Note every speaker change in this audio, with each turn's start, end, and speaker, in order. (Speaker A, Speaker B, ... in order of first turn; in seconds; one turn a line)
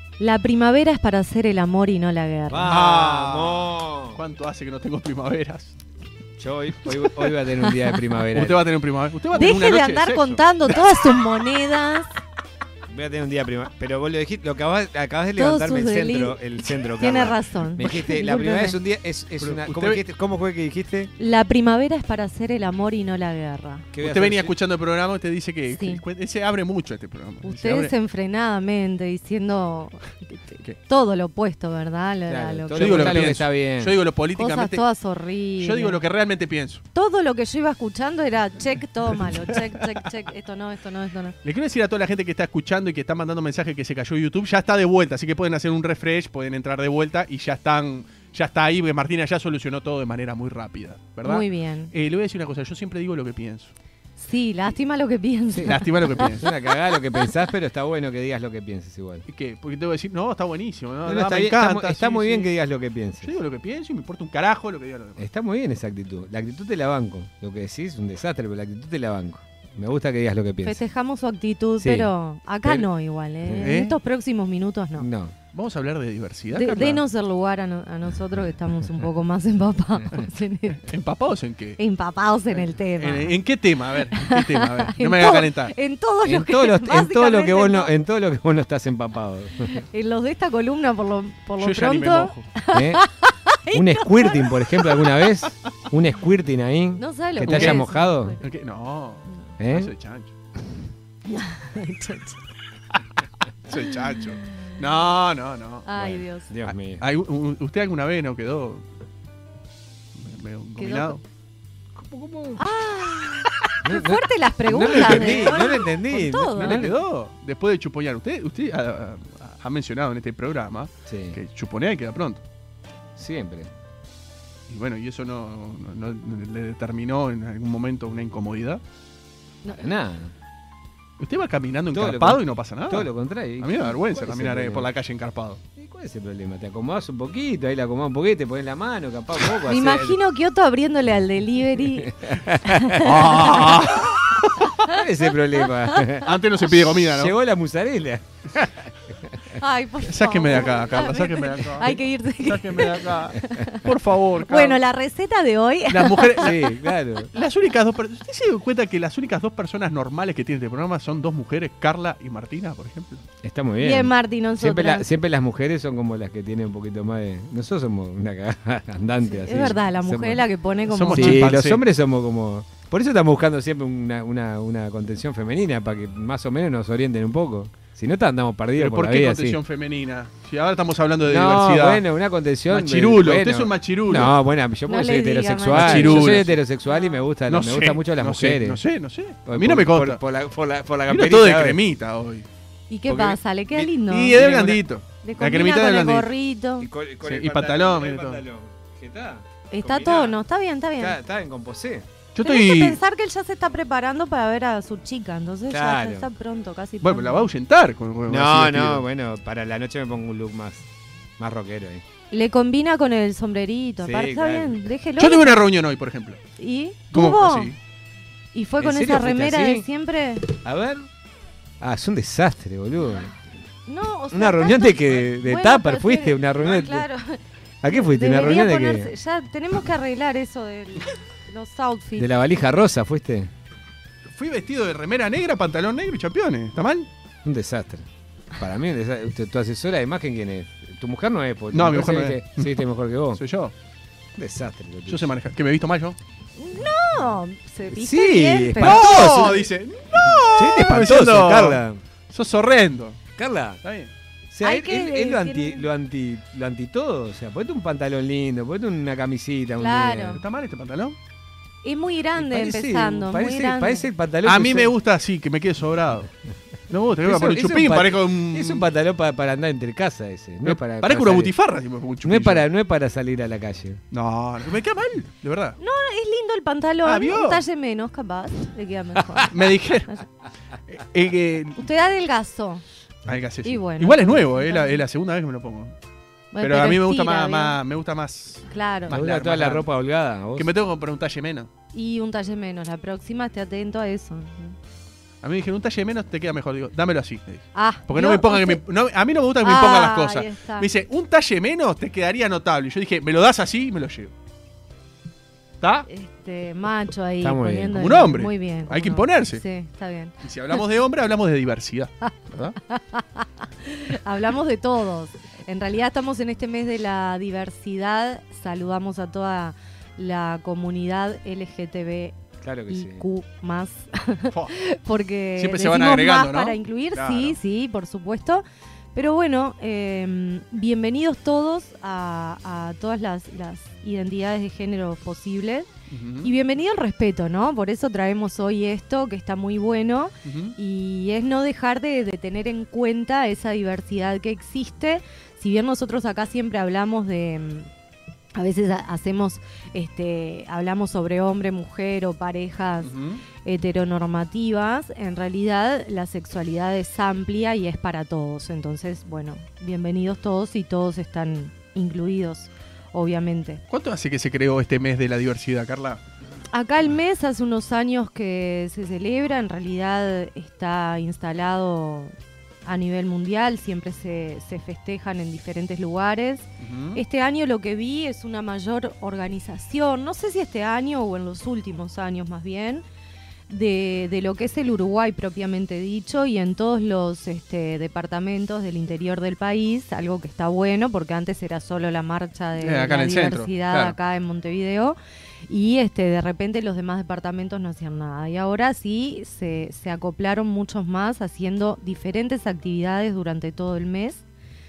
Speaker A: 0.2-2.7
Speaker B: 2.5-4.2
Speaker C: 2.6-5.7
Speaker B: 6.4-8.6
Speaker C: 8.3-11.1
Speaker A: 9.3-12.1
Speaker B: 12.9-21.1
Speaker A: 15.3-18.8
Speaker C: 19.4-20.0
Speaker A: 21.2-23.9
Speaker B: 23.9-24.5
Speaker C: 24.0-27.9
Speaker A: 25.7-26.0
Speaker A: 27.4-33.3
Speaker B: 32.3-34.0
Speaker C: 32.7-34.8
Speaker A: 34.4-36.0
Speaker C: 35.6-36.8
Speaker A: 36.9-41.3
Speaker C: 41.4-53.7
Speaker A: 51.2-51.9
Speaker A: 54.2-56.5
Speaker B: 55.5-59.2
Speaker C: 55.7-56.5
Speaker C: 59.3-62.5
Speaker B: 61.0-63.3
Speaker C: 63.2-65.2
Speaker B: 65.2-70.8
Speaker A: 70.6-75.0
Speaker B: 71.8-72.1
Speaker B: 73.5-73.7
Speaker C: 73.6-74.0
Speaker B: 75.0-75.3
Speaker C: 75.5-77.0
Speaker A: 76.5-80.9
Speaker C: 80.8-81.8
Speaker A: 81.8-83.3
Speaker C: 83.0-85.7
Speaker A: 84.1-87.9
Speaker B: 86.2-89.8
Speaker A: 89.6-95.2
Speaker C: 91.6-92.5
Speaker B: 92.7-93.0
Speaker B: 93.7-98.3
Speaker A: 97.0-98.4
Speaker C: 97.4-97.8
Speaker C: 98.4-100.3
Speaker B: 99.6-99.9
Speaker A: 101.3-102.4
Speaker C: 103.7-105.8
Speaker A: 105.8-106.5
Speaker B: 106.0-107.0
Speaker C: 106.7-108.8
Speaker C: 110.2-111.2
Speaker A: 110.8-111.2
Speaker B: 111.9-112.6
Speaker A: 112.6-116.9
Speaker B: 113.8-116.9
Speaker C: 114.8-115.8
Speaker C: 116.5-122.4
Speaker B: 121.1-121.4
Speaker B: 123.2-123.7
Speaker C: 124.7-128.8
Speaker B: 129.8-130.3
Speaker C: 131.2-135.6
Speaker B: 131.9-134.9
Speaker B: 135.8-140.2
Speaker A: 139.7-145.0
Speaker B: 141.9-144.1
Speaker C: 143.0-144.7
Speaker B: 144.8-149.3
Speaker A: 145.6-146.2
Speaker C: 146.2-147.3
Speaker A: 149.5-153.8
Speaker C: 150.0-154.8
Speaker A: 154.4-156.5
Speaker C: 155.9-156.7
Speaker B: 156.4-157.3
Speaker C: 157.3-163.2
Speaker B: 163.4-170.4
Speaker A: 163.8-165.1
Speaker A: 169.2-171.5
Speaker C: 170.9-171.8
Speaker B: 171.1-179.6
Speaker C: 178.8-182.0
Speaker B: 181.2-188.8
Speaker C: 182.7-184.3
Speaker A: 184.9-187.1
Speaker C: 185.7-186.6
Speaker C: 187.5-190.2
Speaker B: 189.4-191.8
Speaker C: 191.1-192.4
Speaker A: 192.9-196.9
Speaker C: 193.1-193.4
Speaker C: 194.1-196.3
Speaker B: 196.8-200.3
Speaker C: 197.2-198.4
Speaker A: 199.7-201.2
Speaker B: 201.0-202.1
Speaker C: 202.3-203.0
Speaker A: 202.4-207.5
Speaker B: 205.7-206.3
Speaker C: 207.0-209.0
Speaker B: 208.3-210.8
Speaker B: 211.4-212.0
Speaker A: 212.3-215.6
Speaker B: 214.0-214.8
Speaker C: 215.2-216.4
Speaker A: 216.6-217.7
Speaker C: 217.1-217.8
Speaker A: 218.5-220.5
Speaker B: 218.8-219.8
Speaker B: 220.6-221.1
Speaker B: 221.8-223.3
Speaker A: 223.9-227.4
Speaker B: 224.3-227.0
Speaker B: 227.8-229.1
Speaker A: 227.9-232.2
Speaker B: 232.2-233.5
Speaker C: 234.3-237.1
Speaker B: 237.4-238.1
Speaker B: 238.6-243.4
Speaker C: 241.7-242.8
Speaker C: 243.3-243.7
Speaker B: 244.3-245.3
Speaker C: 245.1-246.2
Speaker A: 246.6-249.3
Speaker B: 247.9-249.7
Speaker C: 248.8-253.2
Speaker B: 250.2-252.0
Speaker B: 253.4-253.8
Speaker C: 253.8-254.1
Speaker B: 254.5-260.4
Speaker A: 254.6-255.8
Speaker A: 259.8-260.4
Speaker C: 260.3-261.1
Speaker A: 261.8-264.1
Speaker B: 262.4-264.9
Speaker C: 264.4-266.3
Speaker C: 266.9-268.9
Speaker B: 267.2-271.5
Speaker C: 270.6-272.6
Speaker B: 272.2-274.0
Speaker C: 274.1-275.8
Speaker A: 275.8-279.5
Speaker C: 277.0-277.6
Speaker C: 279.5-280.2
Speaker C: 280.9-281.8
Speaker A: 281.8-282.8
Speaker C: 283.2-285.9
Speaker A: 283.6-285.0
Speaker A: 286.5-287.8
Speaker C: 286.6-289.9
Speaker A: 288.7-289.2
Speaker B: 289.1-290.7
Speaker C: 290.6-291.7
Speaker A: 291.9-294.8
Speaker C: 295.4-304.3
Speaker A: 297.7-298.8
Speaker A: 299.6-300.9
Speaker C: 305.8-306.1
Speaker A: 306.1-310.3
Speaker B: 307.4-308.1
Speaker C: 308.0-309.6
Speaker C: 310.4-312.8
Speaker A: 312.9-322.4
Speaker B: 322.6-323.2
Speaker A: 322.9-328.6
Speaker C: 325.6-327.6
Speaker A: 329.1-335.9
Speaker C: 336.1-336.5
Speaker A: 336.4-347.9
Speaker C: 340.4-340.8
Speaker A: 348.5-353.1
Speaker C: 353.0-353.4
Speaker A: 353.6-363.8
Speaker C: 363.9-366.2
Speaker A: 366.7-372.3
Speaker A: 372.9-383.0
Speaker C: 376.8-377.2
Speaker A: 383.7-395.2
Speaker C: 392.8-394.1
Speaker A: 395.7-404.4